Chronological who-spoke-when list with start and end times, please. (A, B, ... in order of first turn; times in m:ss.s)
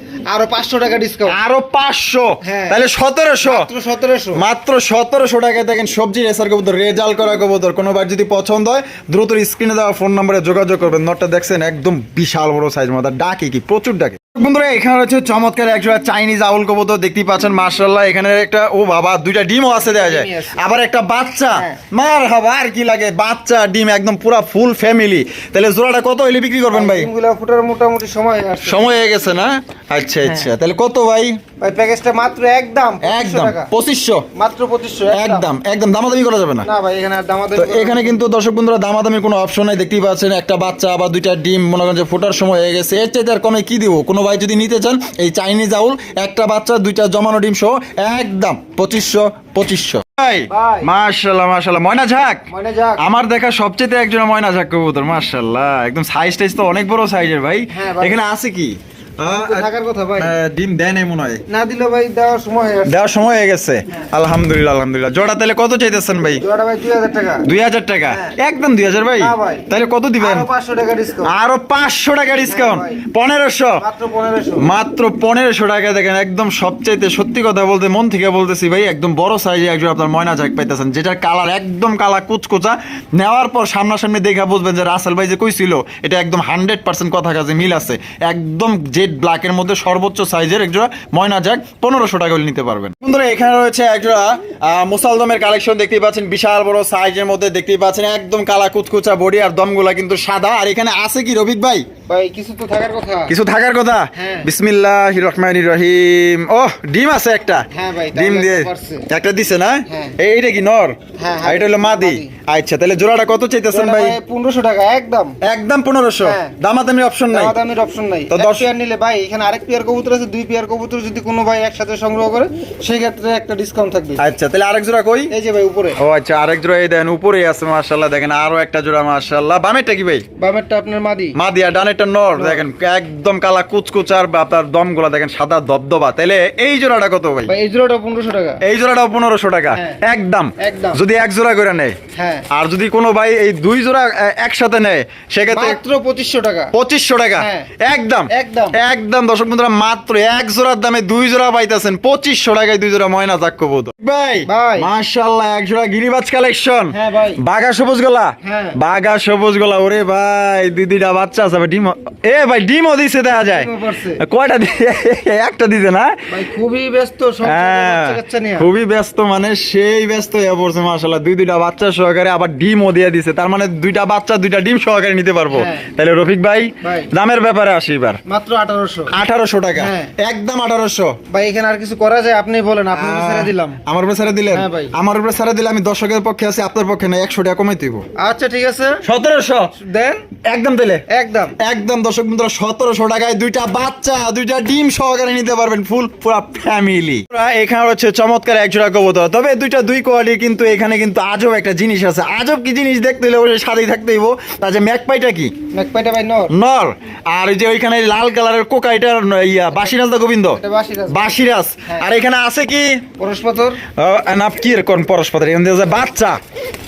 0:00.3-0:01.4 A
0:01.3-0:03.7 B
0:02.4-0:02.8 A
0:03.4-0:04.4 A
0:04.4-0:27.1 B
0:19.7-0:20.6 A
0:21.5-0:21.8 A
0:26.7-0:29.0 A
0:28.6-0:31.4 B
0:30.2-0:30.5 A
0:31.6-0:33.7 A
0:33.0-0:34.2 B
0:34.4-0:35.5 A
0:35.1-0:36.7 B
0:36.6-0:38.2 A
0:37.6-1:01.4 B
0:50.5-0:50.9 A
0:52.5-0:53.0 A
0:57.7-0:58.2 A
0:59.3-1:00.3 A
1:01.5-1:03.0 A
1:02.9-1:06.4 B
1:06.3-1:07.5 A
1:07.4-1:10.5 B
1:08.1-1:08.4 A
1:09.2-1:09.7 A
1:10.2-1:11.3 A
1:11.2-1:13.8 B
1:12.4-1:13.0 A
1:13.8-1:14.7 A
1:14.6-1:41.9 B
1:42.1-1:43.4 A
1:43.3-1:54.2 B
1:44.2-1:44.5 A
1:47.7-1:49.1 A
1:49.9-1:50.2 A
1:51.2-1:52.3 A
1:53.7-1:55.4 A
1:55.4-1:57.6 B
1:56.2-1:56.6 A
1:57.3-2:04.2 A
1:58.3-1:58.7 B
2:04.2-2:05.3 B
2:05.3-2:06.0 A
2:06.0-2:10.2 B
2:10.4-2:11.4 A
2:11.4-2:17.5 B
2:12.4-2:12.6 A
2:17.5-2:18.6 A
2:18.6-2:22.0 B
2:19.7-2:20.0 A
2:20.6-2:21.0 A
2:22.2-2:22.5 A
2:22.5-2:25.8 B
2:25.5-2:26.7 A
2:26.7-2:46.2 B
2:27.4-2:27.7 A
2:28.3-2:28.8 A
2:34.5-2:34.9 A
2:36.9-2:37.4 A
2:38.4-2:38.8 A
2:43.4-2:44.2 A
2:46.3-2:48.7 A
2:47.4-2:58.2 B
2:55.5-2:55.9 A
2:56.8-2:57.1 A
2:58.3-2:59.1 A
2:59.1-3:01.2 B
2:59.8-3:00.1 A
3:01.3-3:03.8 A
3:03.0-3:08.0 B
3:04.5-3:04.9 A
3:08.2-3:09.0 A
3:09.0-3:09.7 B
3:09.7-3:10.2 A
3:10.5-3:11.0 B
3:11.1-3:11.6 A
3:11.6-3:25.6 B
3:25.7-3:26.5 A
3:26.5-3:33.0 B
3:30.6-3:32.1 A
3:33.2-3:33.8 A
3:34.0-3:36.4 B